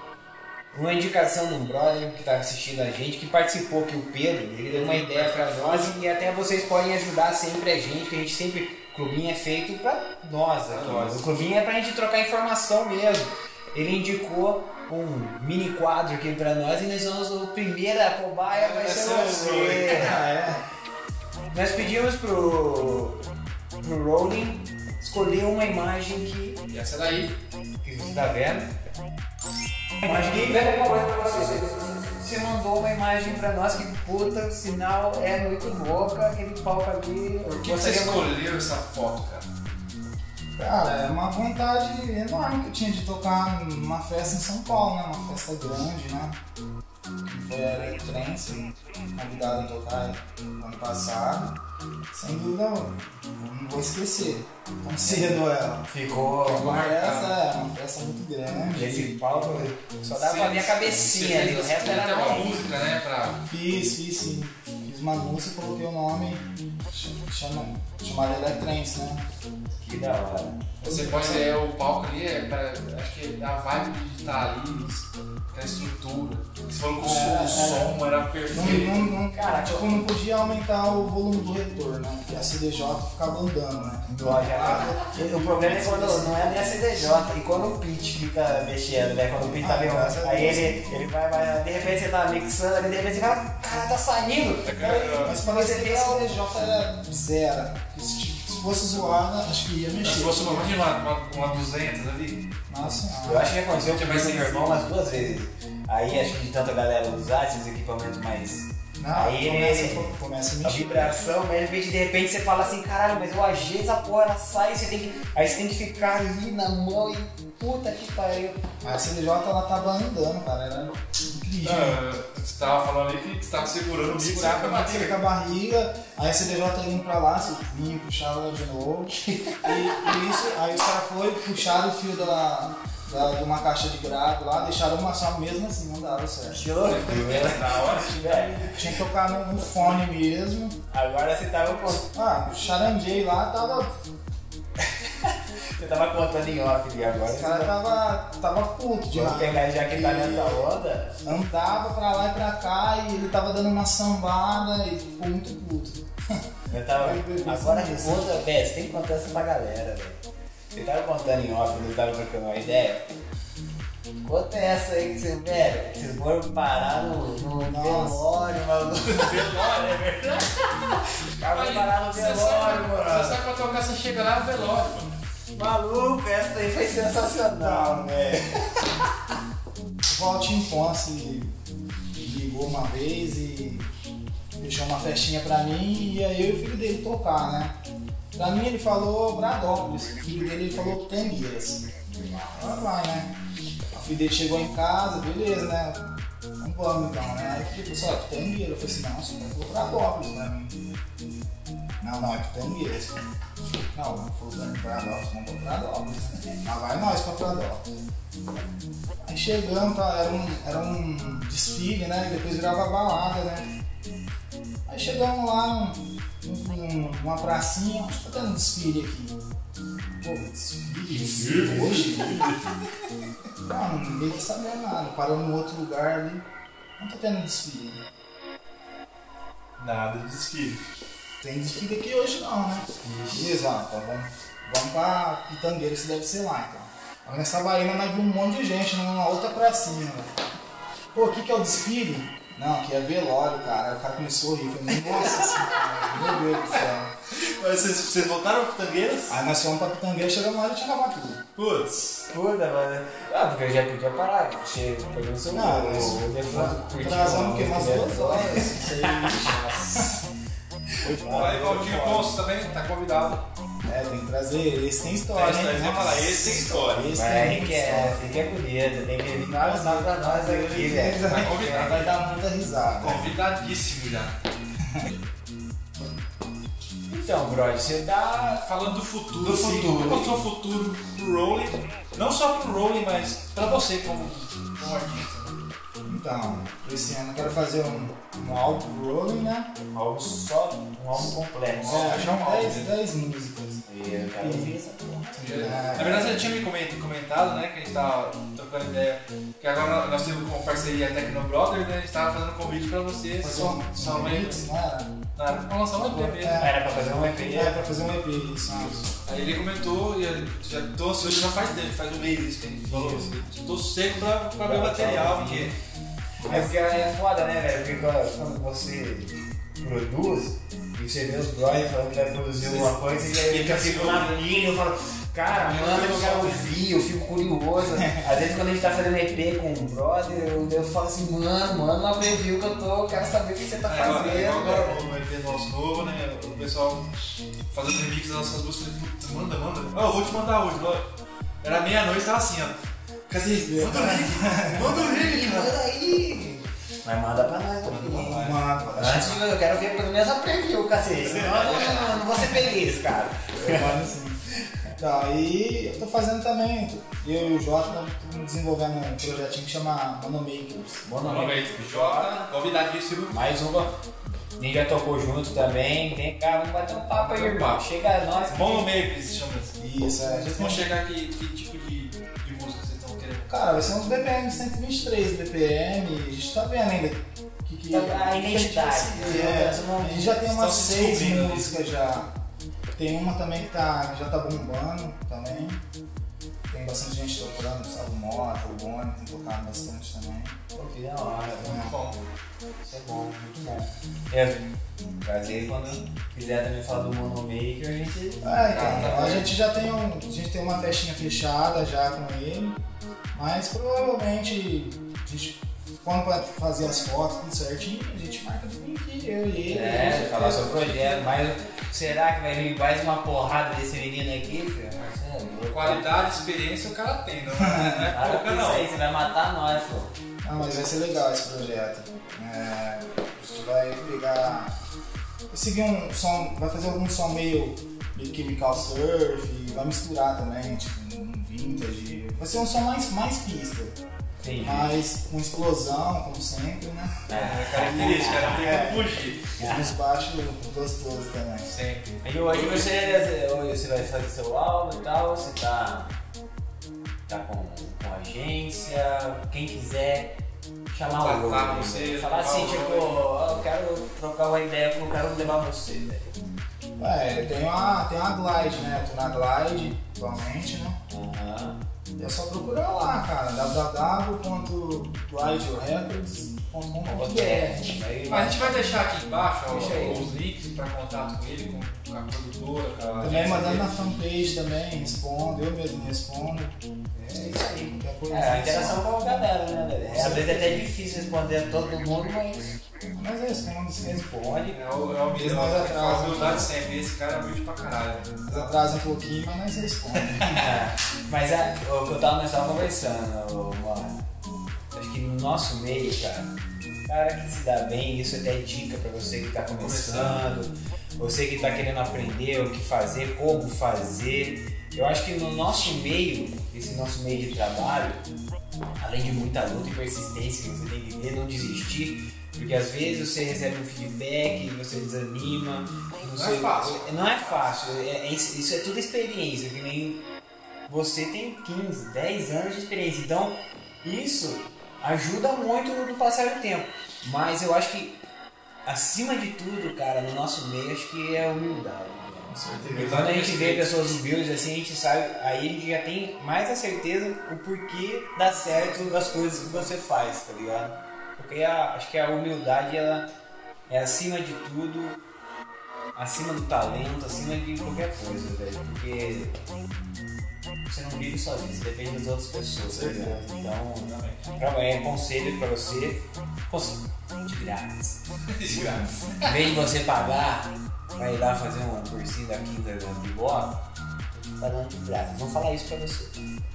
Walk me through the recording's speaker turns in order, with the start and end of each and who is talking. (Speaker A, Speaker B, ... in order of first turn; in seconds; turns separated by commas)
Speaker A: 0.7-20.1, Speaker B: 4.7-6.0, Speaker B: 10.7-11.3, Speaker B: 18.5-20.2, Speaker C: 19.9-20.6, Speaker A: 21.5-23.2, Speaker A: 23.8-26.6, Speaker B: 26.7-27.4, Speaker A: 27.8-28.7, Speaker A: 30.0-38.3, Speaker B: 30.3-30.9, Speaker B: 37.4-39.5, Speaker C: 40.6-46.4, Speaker C: 47.2-51.5, Speaker C: 52.1-55.9, Speaker A: 55.0-55.3, Speaker A: 55.9-56.8, Speaker C: 56.4-59.7, Speaker B: 56.6-57.4, Speaker A: 58.7-62.6, Speaker B: 60.0-63.4, Speaker C: 63.5-69.2, Speaker A: 69.8-70.6, Speaker C: 70.8-71.5, Speaker B: 70.8-79.1, Speaker C: 77.0-86.8, Speaker A: 79.3-80.0, Speaker A: 84.2-96.3, Speaker C: 89.4-90.9, Speaker B: 94.6-95.3, Speaker C: 94.8-100.9, Speaker B: 100.0-102.4, Speaker C: 102.7-103.5, Speaker A: 103.2-110.1, Speaker B: 103.8-104.8, Speaker C: 109.0-111.2, Speaker A: 110.6-118.6, Speaker C: 118.8-122.0, Speaker B: 121.6-125.2, Speaker C: 124.0-136.6, Speaker A: 129.2-130.1, Speaker A: 136.5-138.8, Speaker B: 136.8-138.6, Speaker C: 138.3-140.8, Speaker A: 140.9-142.1, Speaker C: 142.1-143.9, Speaker A: 144.8-147.7, Speaker C: 147.3-150.7, Speaker A: 149.1-151.2, Speaker C: 151.2-158.4, Speaker A: 156.7-160.2, Speaker A: 160.7-163.1, Speaker A: 164.2-173.4, Speaker C: 167.7-168.2, Speaker B: 169.2-169.9, Speaker B: 171.4-175.0, Speaker A: 175.5-178.0, Speaker C: 177.6-178.9, Speaker C: 180.1-181.5, Speaker C: 182.2-183.9, Speaker C: 184.6-187.8, Speaker C: 188.3-193.3, Speaker C: 193.9-196.0, Speaker C: 196.6-200.8, Speaker C: 202.0-203.1, Speaker C: 203.9-207.9, Speaker C: 209.2-213.7, Speaker C: 214.9-219.4, Speaker C: 220.2-222.5, Speaker B: 221.1-222.6, Speaker C: 223.6-226.4, Speaker C: 227.0-228.0, Speaker B: 229.8-230.8, Speaker C: 231.4-240.3, Speaker A: 233.0-233.5, Speaker C: 241.1-247.1, Speaker B: 247.3-249.4, Speaker C: 249.3-251.4, Speaker B: 251.6-252.3, Speaker A: 252.3-260.1, Speaker C: 255.5-260.3, Speaker A: 260.9-262.3, Speaker B: 261.1-263.4, Speaker C: 263.8-268.4, Speaker B: 265.3-267.1, Speaker A: 267.1-272.0, Speaker C: 269.5-273.2, Speaker B: 271.2-272.1, Speaker B: 273.0-274.5, Speaker A: 277.1-278.6, Speaker B: 278.6-285.6, Speaker A: 279.4-280.3, Speaker C: 286.1-289.7, Speaker A: 289.9-292.2, Speaker B: 291.7-292.9, Speaker C: 291.8-293.8, Speaker A: 293.9-296.0, Speaker C: 294.4-294.8, Speaker B: 295.4-304.6, Speaker C: 295.5-296.5, Speaker C: 303.4-305.1, Speaker B: 305.4-306.7, Speaker C: 306.1-306.7, Speaker A: 306.5-307.8, Speaker C: 307.5-309.1, Speaker B: 309.2-315.7, Speaker C: 312.9-313.3, Speaker A: 314.6-315.7, Speaker C: 316.4-316.7, Speaker A: 316.5-335.0, Speaker B: 322.6-324.4, Speaker B: 325.5-326.7, Speaker B: 333.9-337.0, Speaker B: 337.7-341.1, Speaker B: 341.6-345.7, Speaker C: 343.4-345.0, Speaker A: 344.7-348.4, Speaker B: 347.8-348.9, Speaker C: 348.2-349.4, Speaker A: 348.9-354.0, Speaker B: 351.2-352.2, Speaker C: 353.6-354.4, Speaker C: 355.0-361.1, Speaker A: 361.0-362.5, Speaker B: 361.2-363.6, Speaker A: 363.3-363.9, Speaker A: 364.6-368.9, Speaker B: 367.1-367.9, Speaker B: 368.5-373.9, Speaker C: 369.8-370.9, Speaker C: 373.5-382.3, Speaker A: 377.9-380.3, Speaker B: 379.2-379.7, Speaker B: 380.4-381.7, Speaker C: 382.9-385.8, Speaker C: 386.7-390.6, Speaker A: 390.7-391.8, Speaker C: 391.6-391.9, Speaker B: 391.7-392.2, Speaker A: 392.8-394.7, Speaker A: 395.2-399.3, Speaker C: 398.4-402.8, Speaker B: 398.6-399.5, Speaker C: 403.3-411.3, Speaker A: 409.7-416.3, Speaker B: 415.7-418.9, Speaker C: 417.6-418.1, Speaker A: 418.1-420.1, Speaker C: 420.4-424.8, Speaker C: 425.5-434.0, Speaker A: 434.4-435.0, Speaker C: 434.6-437.2, Speaker A: 437.3-438.9, Speaker B: 437.3-439.5, Speaker C: 437.9-441.7, Speaker A: 439.6-439.9, Speaker B: 441.7-443.2, Speaker A: 442.2-446.1, Speaker A: 447.3-450.3, Speaker A: 450.9-456.3, Speaker B: 451.1-453.3, Speaker C: 457.0-461.0, Speaker A: 461.1-461.8, Speaker C: 462.2-467.8, Speaker A: 467.1-468.8, Speaker B: 468.3-473.9, Speaker A: 469.7-470.3, Speaker C: 473.2-476.8, Speaker A: 477.1-482.8, Speaker C: 477.3-479.1, Speaker C: 480.0-480.8, Speaker C: 483.1-484.2, Speaker A: 484.0-484.8, Speaker B: 484.7-488.8, Speaker C: 485.3-486.7, Speaker C: 488.4-490.5, Speaker B: 490.1-490.7, Speaker A: 490.4-494.2, Speaker A: 494.9-496.5, Speaker A: 497.1-508.2, Speaker B: 499.8-500.4, Speaker A: 509.0-520.2, Speaker B: 516.2-517.9, Speaker A: 520.9-528.1, Speaker A: 528.9-543.3, Speaker C: 532.5-533.2, Speaker B: 532.8-534.2, Speaker A: 543.9-545.2, Speaker A: 546.1-549.6, Speaker A: 550.9-558.2, Speaker C: 552.8-553.4, Speaker B: 554.0-554.6, Speaker B: 558.5-559.7, Speaker A: 559.4-566.5